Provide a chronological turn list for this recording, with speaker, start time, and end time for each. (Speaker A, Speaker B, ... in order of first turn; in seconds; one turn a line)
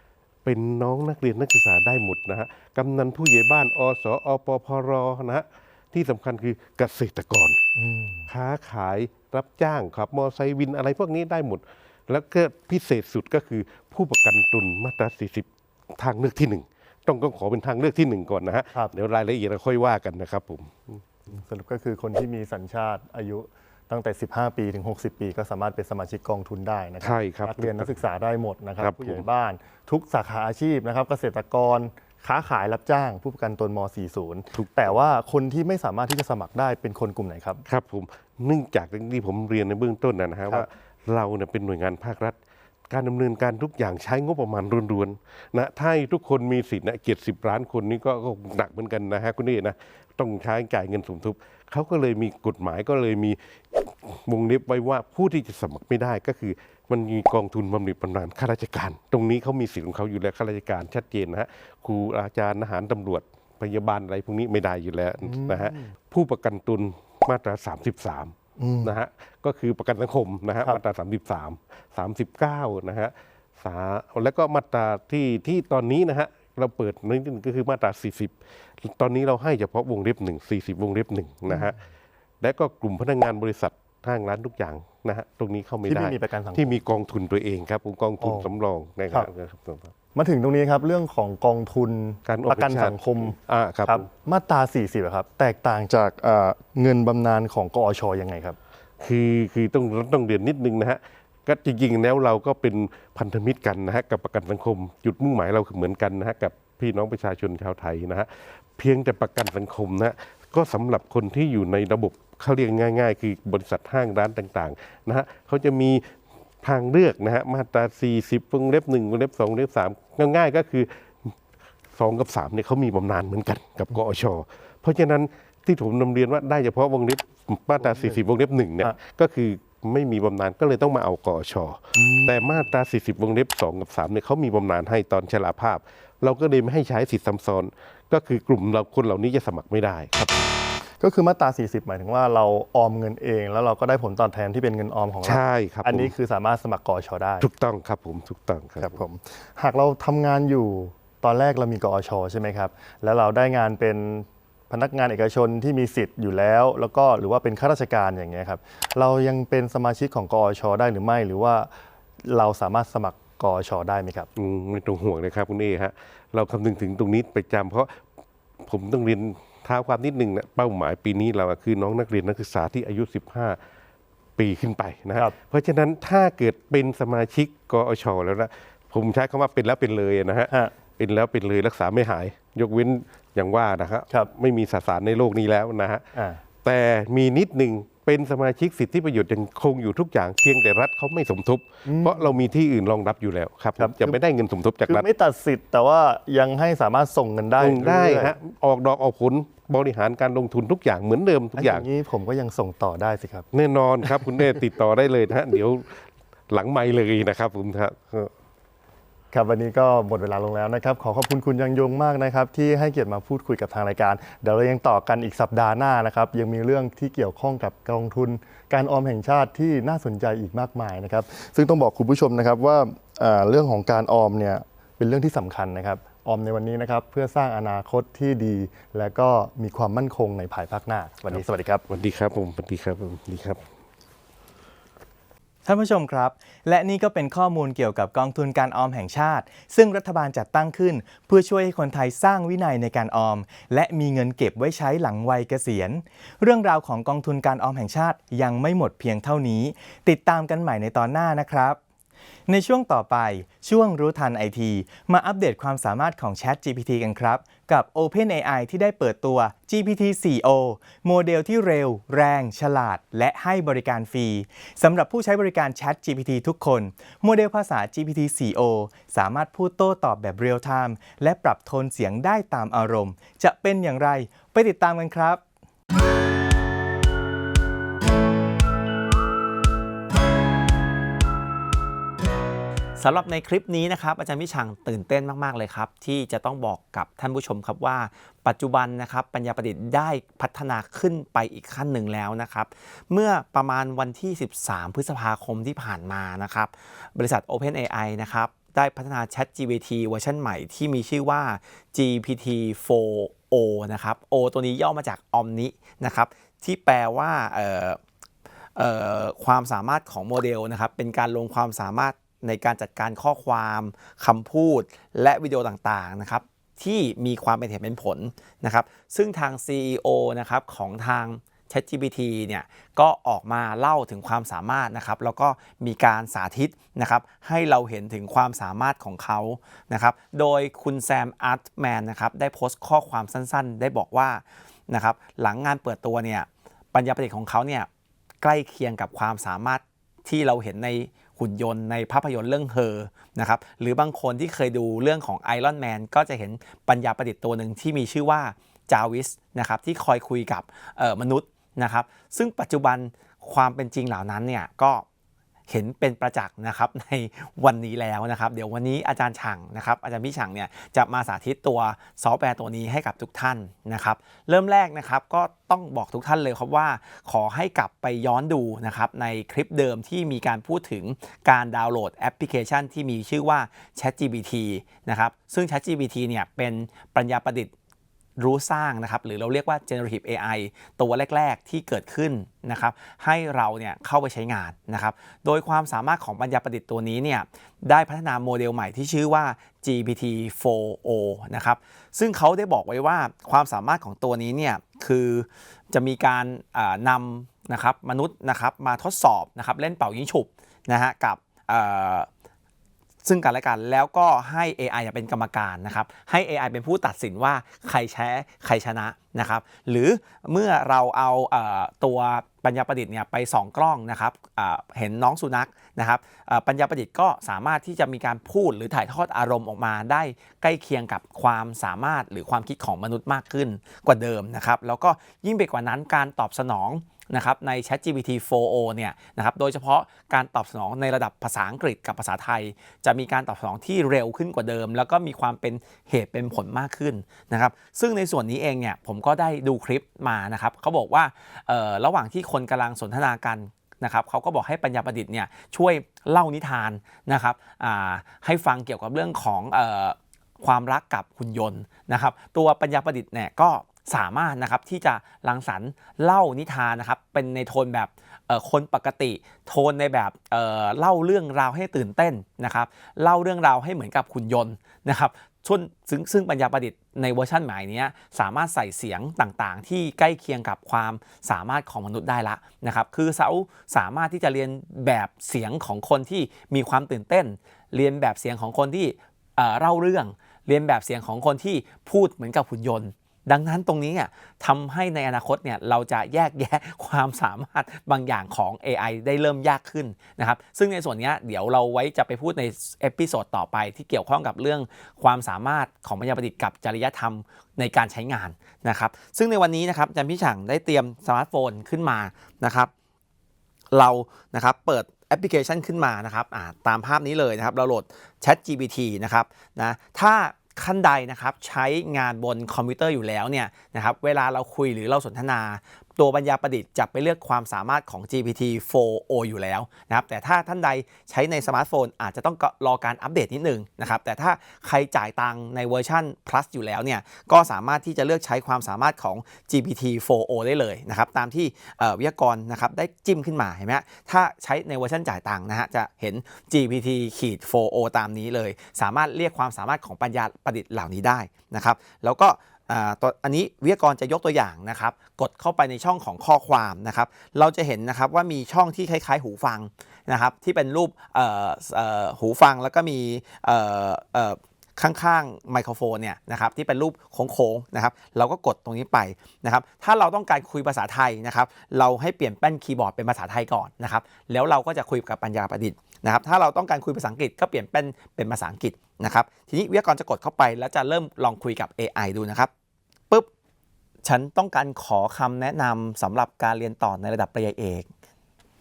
Speaker A: 0.4-7.6
Speaker B: 7.8-8.3
Speaker A: 8.3-21.0
Speaker B: 21.3-37.6
Speaker A: 27.0-28.0
Speaker A: 28.8-29.2
Speaker A: 34.5-35.0
Speaker A: 37.6-42.4
Speaker A: 42.9-81.8
Speaker B: 65.2-65.9
Speaker B: 68.6-68.9
Speaker B: 81.5-81.8
Speaker A: 82.4-89.9
Speaker B: 85.9-86.8
Speaker B: 88.2-88.5
Speaker B: 90.1-93.3
Speaker A: 92.2-94.1
Speaker B: 93.9-98.6
Speaker A: 99.0-116.1
Speaker A: 116.6-121.3
Speaker A: 121.9-140.5
Speaker B: 127.8-128.2
Speaker B: 132.0-132.6
Speaker B: 141.0-147.5
Speaker A: 145.2-146.1
Speaker A: 147.4-149.0
Speaker B: 148.8-161.7
Speaker B: 162.2-164.3
Speaker A: 164.3-168.0
Speaker A: 168.6-173.6
Speaker A: 174.4-186.1
Speaker B: 186.1-186.4
Speaker A: 186.6-195.1
Speaker B: 191.9-192.4
Speaker B: 193.8-194.2
Speaker B: 194.9-198.3
Speaker A: 197.6-201.9
Speaker B: 201.6-203.5
Speaker A: 203.5-208.3
Speaker B: 204.0-204.3
Speaker B: 209.3-231.8
Speaker A: 231.3-233.6
Speaker C: 235.6-251.8
Speaker C: 252.5-275.4
Speaker D: 283.0-308.0
Speaker D: 308.8-337.9
Speaker D: 338.4-355.0
Speaker D: 355.7-377.7
Speaker D: 378.4-402.3
Speaker D: 403.2-502.9
Speaker D: 503.9-572.7
Speaker D: 574.2-578.1